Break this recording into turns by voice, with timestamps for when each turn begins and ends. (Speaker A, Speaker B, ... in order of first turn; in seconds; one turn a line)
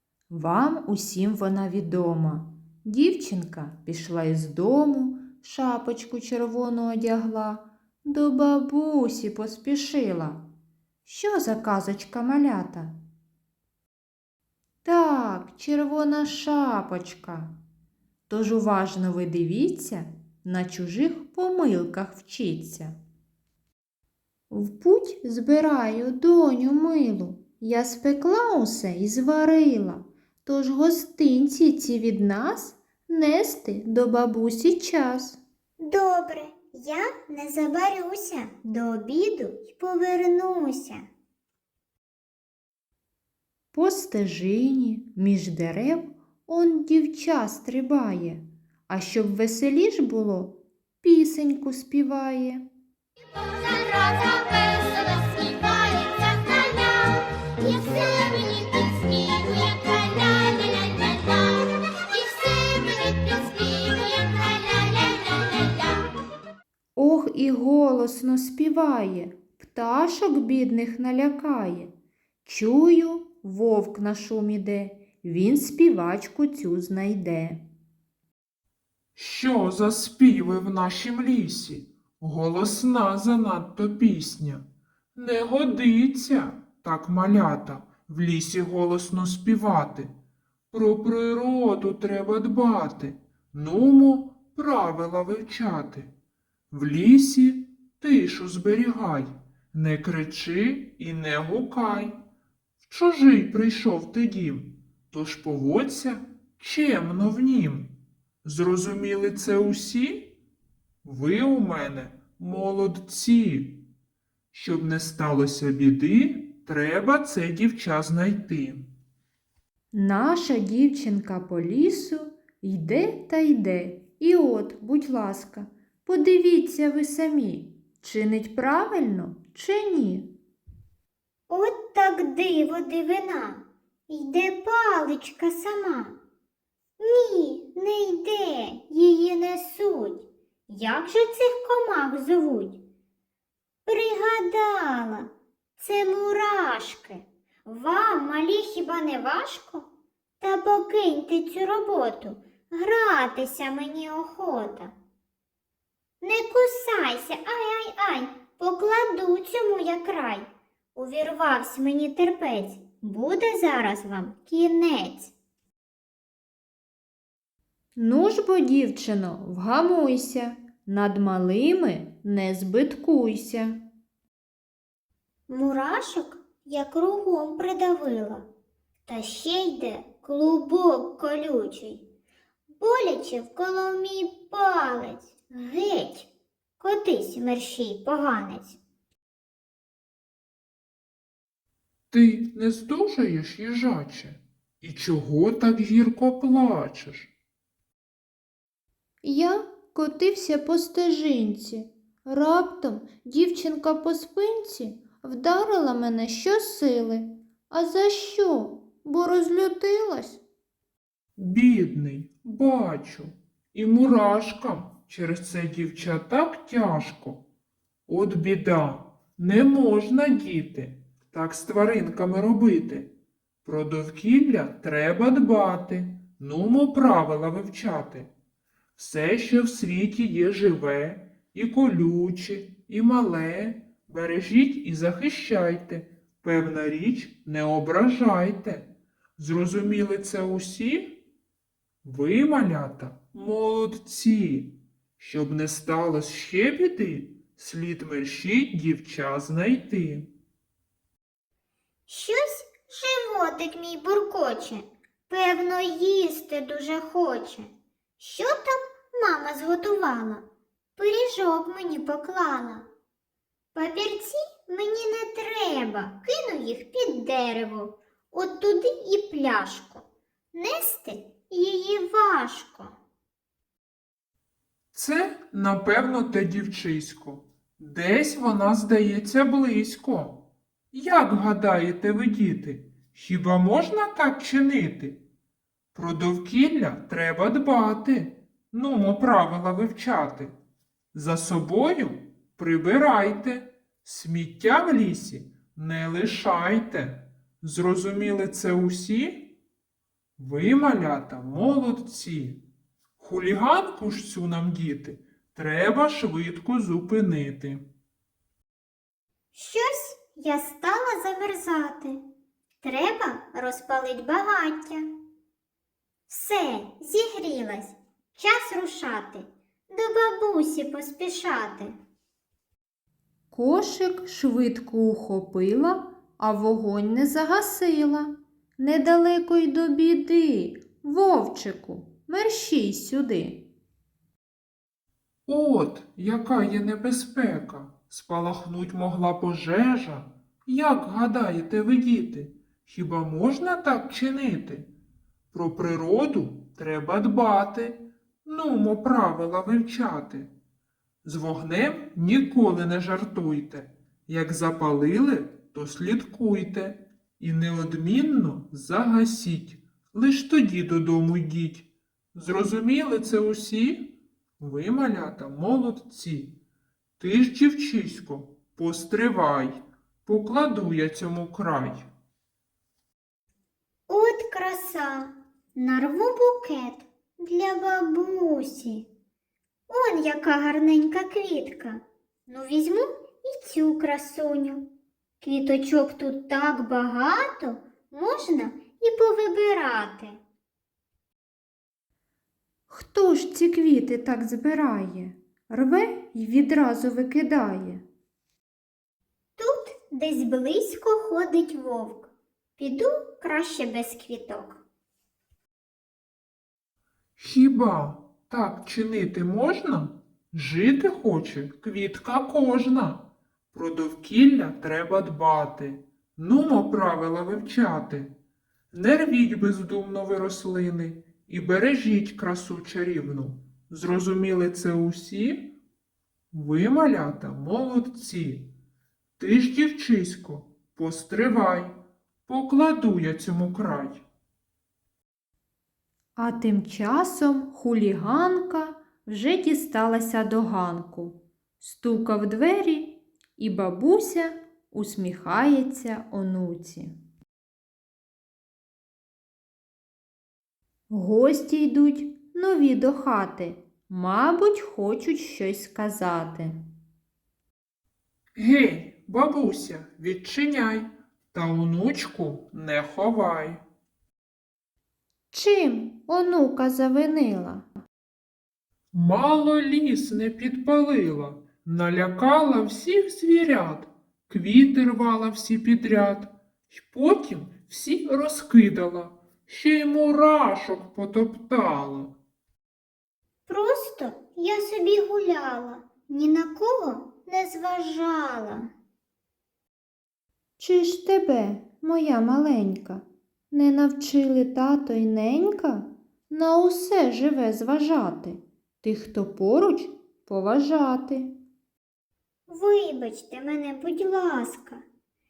Speaker A: 0.3-10.4
Speaker A: 11.1-13.0
Speaker A: 14.8-17.5
Speaker A: 18.3-23.0
Speaker A: 24.5-35.4
Speaker B: 35.8-41.1
Speaker A: 43.7-52.6
Speaker B: 53.3-66.0
Speaker A: 67.0-71.9
Speaker A: 72.4-77.7
Speaker C: 79.2-90.1
Speaker C: 90.7-96.1
Speaker C: 96.7-102.2
Speaker C: 102.8-110.4
Speaker C: 111.0-113.8
Speaker C: 114.5-118.9
Speaker A: 119.9-130.3
Speaker B: 131.5-136.2
Speaker B: 137.0-142.8
Speaker B: 143.9-149.9
Speaker B: 150.4-154.9
Speaker B: 156.2-165.3
Speaker A: 168.0-173.8
Speaker B: 175.5-178.5
Speaker B: 179.1-182.1
Speaker B: 182.7-186.3
Speaker B: 186.8-188.8
Speaker C: 192.1-197.3
Speaker A: 199.2-210.4
Speaker C: 211.4-217.4
Speaker C: 218.1-223.1
Speaker C: 223.7-228.3
Speaker C: 229.0-241.3
Speaker C: 242.0-250.3
Speaker B: 252.1-260.5
Speaker B: 261.0-262.9
Speaker B: 263.8-273.0
Speaker C: 274.9-285.2
Speaker C: 285.9-290.6
Speaker C: 291.1-299.6
Speaker C: 300.4-302.6
Speaker C: 303.2-307.8
Speaker B: 309.5-312.2
Speaker B: 312.8-315.1
Speaker B: 316.3-321.9
Speaker A: 323.5-333.7
Speaker C: 335.5-344.9
Speaker C: 345.5-350.5
Speaker C: 351.2-366.6
Speaker C: 367.2-372.1
Speaker B: 374.1-379.1
Speaker B: 379.9-384.9
Speaker B: 385.4-390.4
Speaker A: 392.9-398.0
Speaker B: 399.6-404.8
Speaker C: 407.4-418.3
Speaker C: 418.9-425.7
Speaker C: 426.5-428.7
Speaker C: 429.4-431.9
Speaker C: 432.5-434.2
Speaker A: 436.4-447.1
Speaker A: 451.1-456.8
Speaker C: 458.6-463.8
Speaker A: 465.5-467.9
Speaker C: 469.1-482.4
Speaker B: 483.7-488.9
Speaker A: 490.8-501.5
Speaker B: 502.7-505.1